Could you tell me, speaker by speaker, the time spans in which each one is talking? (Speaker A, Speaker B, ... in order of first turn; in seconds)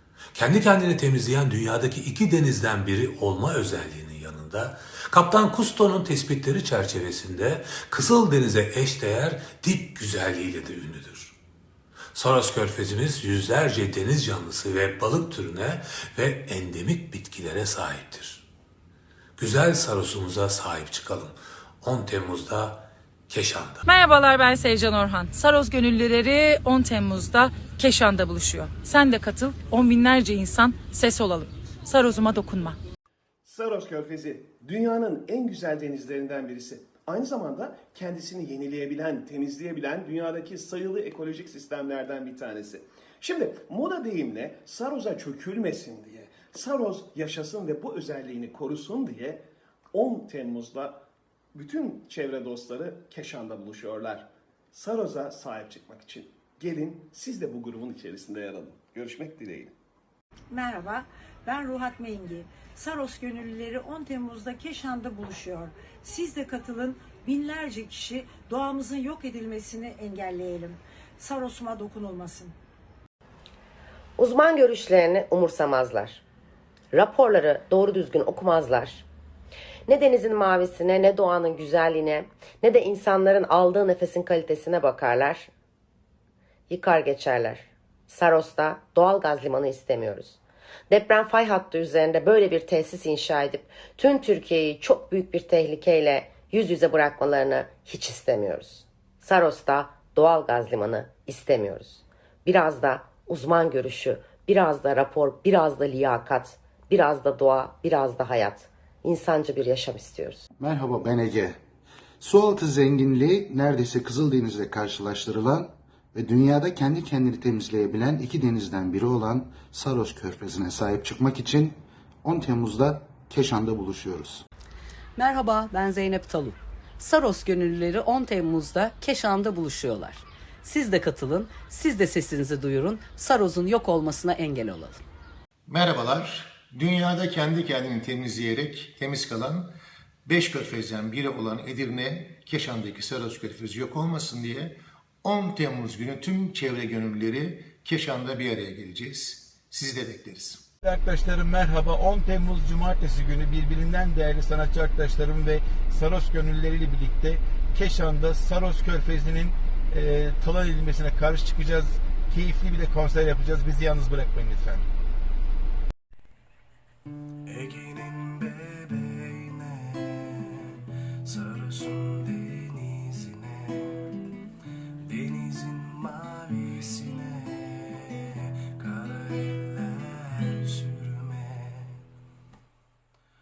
Speaker A: 0.3-11.3, 12.1-18.4, 19.4-23.8
Speaker B: 23.8-32.8
Speaker C: 33.5-49.4, 49.9-51.0, 51.5-59.7
Speaker D: 60.5-72.5
Speaker E: 74.2-76.2, 76.9-79.0, 79.9-85.5, 86.7-90.4, 90.9-110.4
Speaker F: 110.6-111.6, 112.2-124.4
Speaker G: 125.2-135.0
Speaker H: 135.7-139.7, 140.2-150.6
Speaker I: 150.8-164.9
Speaker J: 167.5-170.1, 171.3-174.0, 175.1-178.0, 178.8-182.0